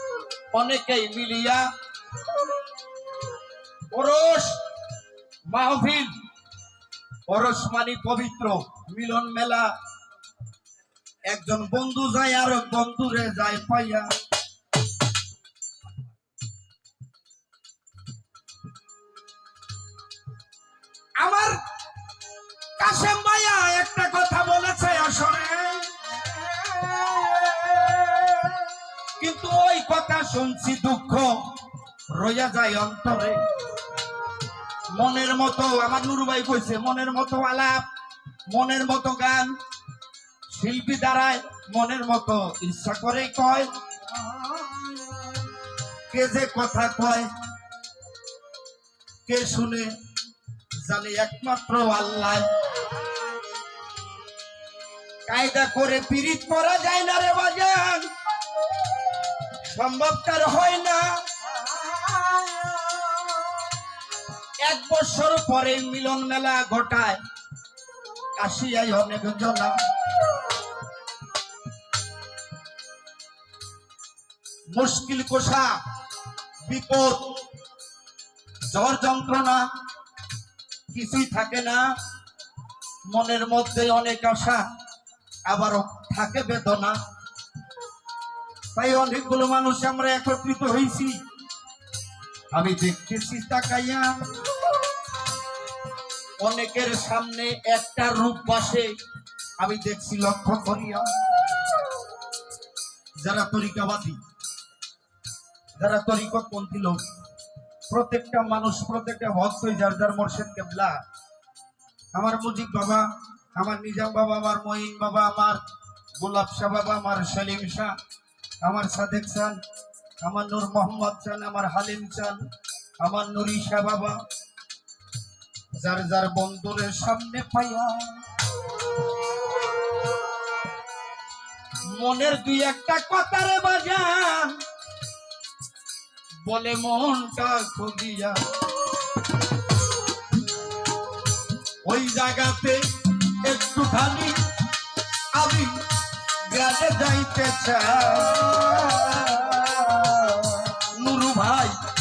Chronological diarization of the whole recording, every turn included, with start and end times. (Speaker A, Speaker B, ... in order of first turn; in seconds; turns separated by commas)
Speaker A: 0.5-1.7, Speaker A: 3.9-4.6, Speaker A: 5.5-6.1, Speaker A: 7.3-9.7, Speaker A: 11.3-14.1, Speaker A: 21.2-21.6, Speaker A: 22.8-31.4, Speaker A: 32.1-33.4, Speaker A: 34.9-37.8, Speaker A: 38.5-39.5, Speaker A: 40.5-43.7, Speaker A: 46.1-47.3, Speaker A: 49.2-49.9, Speaker A: 50.8-52.5, Speaker A: 55.2-58.1, Speaker A: 59.5-61.2, Speaker A: 61.8-63.3, Speaker A: 64.6-67.2, Speaker A: 68.3-69.7, Speaker A: 74.7-75.8, Speaker A: 76.6-77.4, Speaker A: 78.7-79.6, Speaker A: 80.9-81.8, Speaker A: 83.1-84.6, Speaker A: 85.5-87.0, Speaker A: 88.7-91.2, Speaker A: 92.5-94.1, Speaker A: 96.4-98.9, Speaker A: 99.6-101.1, Speaker A: 103.2-104.2, Speaker A: 105.8-107.0, Speaker A: 107.9-111.0, Speaker A: 112.1-115.6, Speaker A: 116.2-117.9, Speaker A: 118.6-119.6, Speaker A: 120.2-122.4, Speaker A: 123.0-124.2, Speaker A: 125.8-128.3, Speaker A: 131.9-134.6, Speaker A: 136.4-138.4, Speaker A: 141.8-144.3, Speaker A: 145.3-145.8, Speaker A: 146.5-151.8